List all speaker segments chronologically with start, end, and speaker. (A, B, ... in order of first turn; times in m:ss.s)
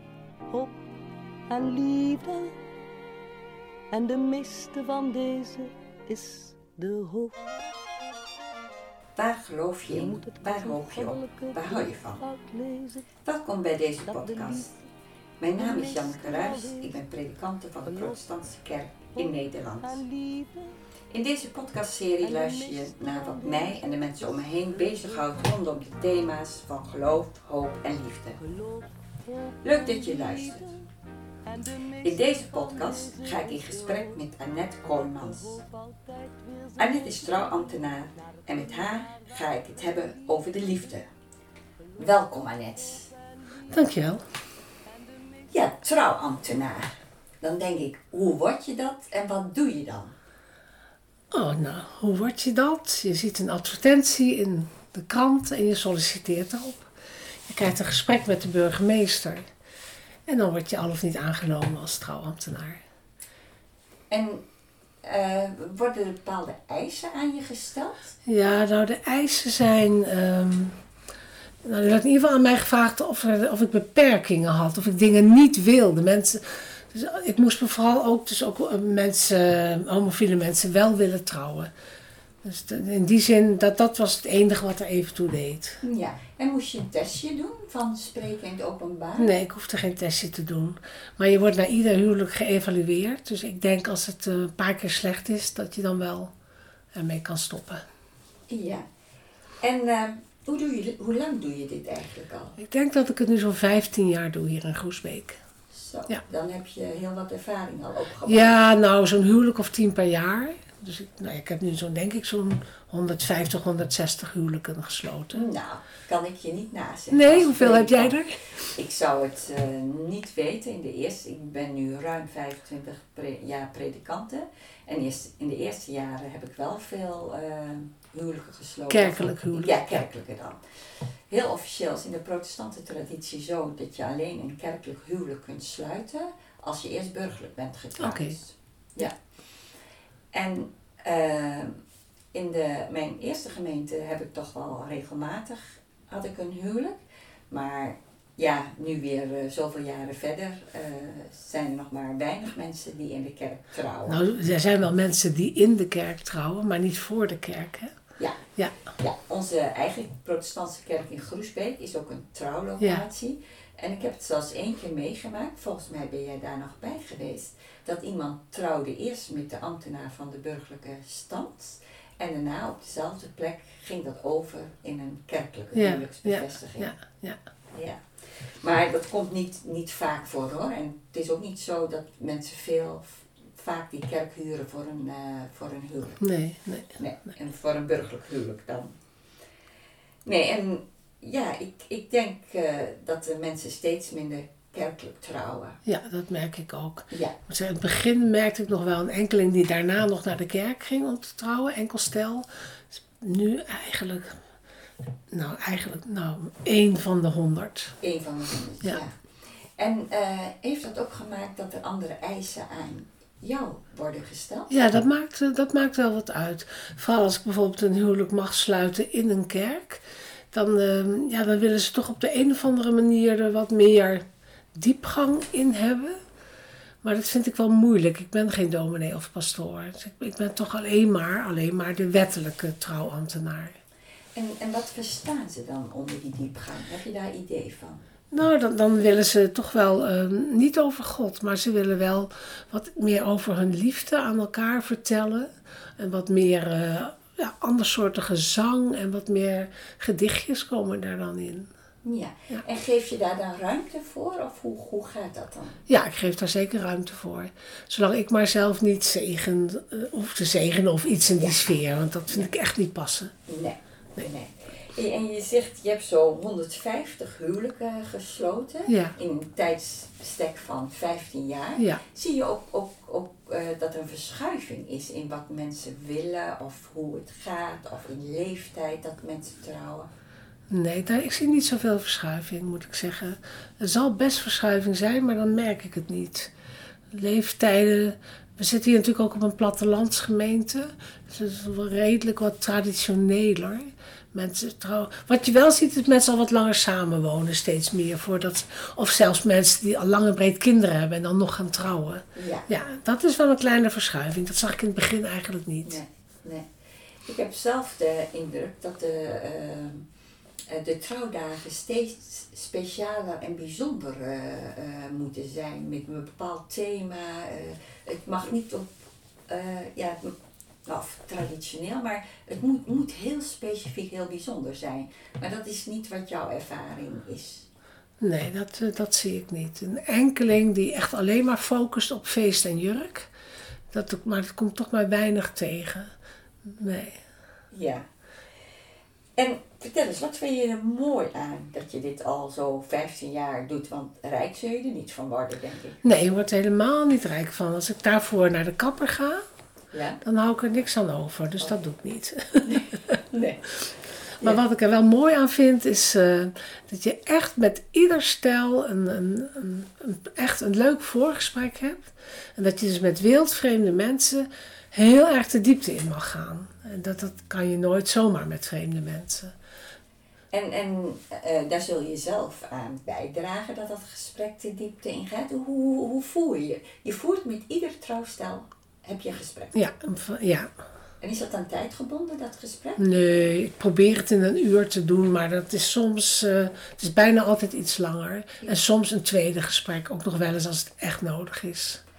0:00.5-0:00.8 A
0:01.5-0:02.5 A
0:03.9-0:07.4 A
0:09.2-0:12.2 B
0:09.9-0:13.1 A
0:13.2-0:14.7 B
0:14.0-0:14.8 A
0:15.4-0:20.0 B
0:15.6-0:17.0 A
0:17.8-0:18.3 A
0:19.1-0:20.8 A
0:21.1-0:28.4 B
0:22.2-0:25.4 A
0:28.4-0:30.9 A
0:29.6-0:30.6 B
0:31.4-0:34.2 A
0:32.0-0:35.6 B
0:34.8-0:41.0 A
0:36.8-0:41.0 B
0:41.9-0:44.0 A
0:42.0-0:43.1 B
0:43.7-0:44.2 C
0:44.8-0:45.7 A
0:45.5-0:50.1 B
0:51.3-0:56.9 C
0:57.5-0:59.5 C
1:00.3-1:02.8 C
1:04.1-1:04.4 B
1:05.0-1:08.2 B
1:08.2-1:10.8 C
1:11.6-1:21.7 C
1:22.4-1:25.8 C
1:25.8-1:29.3 B
1:29.2-1:36.3 C
1:36.9-1:37.8 C
1:38.5-1:38.8 B
1:39.6-1:42.6 B
1:42.6-1:45.4 C
1:45.7-1:48.6 B
1:48.3-1:55.4 C
1:55.3-2:10.6 B
1:57.1-1:58.5 C
2:08.9-2:10.0 C
2:11.3-2:19.2 B
2:18.0-2:18.4 C
2:20.3-2:21.8 B
2:22.3-2:27.0 B
2:27.5-2:34.2 B
2:34.1-2:37.9 C
2:38.2-2:56.9 B
2:42.8-2:43.0 C
2:55.7-2:57.4 C
2:57.7-3:06.2 B
3:06.2-3:07.0 C
3:07.0-3:08.9 B
3:10.2-3:15.8 B
3:15.8-3:24.4 C
3:17.1-3:17.4 B
3:25.3-3:28.0 C
3:28.0-3:29.2 B
3:29.8-3:34.8 B
3:34.7-3:46.2 C
3:47.0-3:53.8 C
3:54.4-3:58.0 B
3:58.3-4:11.7 C
4:12.0-4:15.8 B
4:15.9-4:23.3 C
4:21.4-4:21.7 B
4:23.5-4:40.1 B
4:28.9-4:29.1 C
4:40.7-4:46.5 C
4:47.1-5:06.0 C
5:02.3-5:02.7 B
5:05.8-5:06.7 B
5:07.2-5:10.0 B
5:10.7-5:18.9 B
5:19.5-5:20.3 B
5:20.8-5:27.7 B
5:28.2-5:33.3 C
5:33.9-5:36.1 C
5:36.6-5:37.2 C
5:37.7-5:38.0 B
5:39.4-5:46.0 B
5:46.0-5:49.4 C
5:49.9-5:50.2 B
5:50.2-5:53.2 C
5:52.7-5:53.8 B
5:54.4-6:09.5 C
6:10.5-6:19.8 B
6:19.7-6:20.7 C
6:21.2-6:23.0 B
6:23.0-6:32.0 C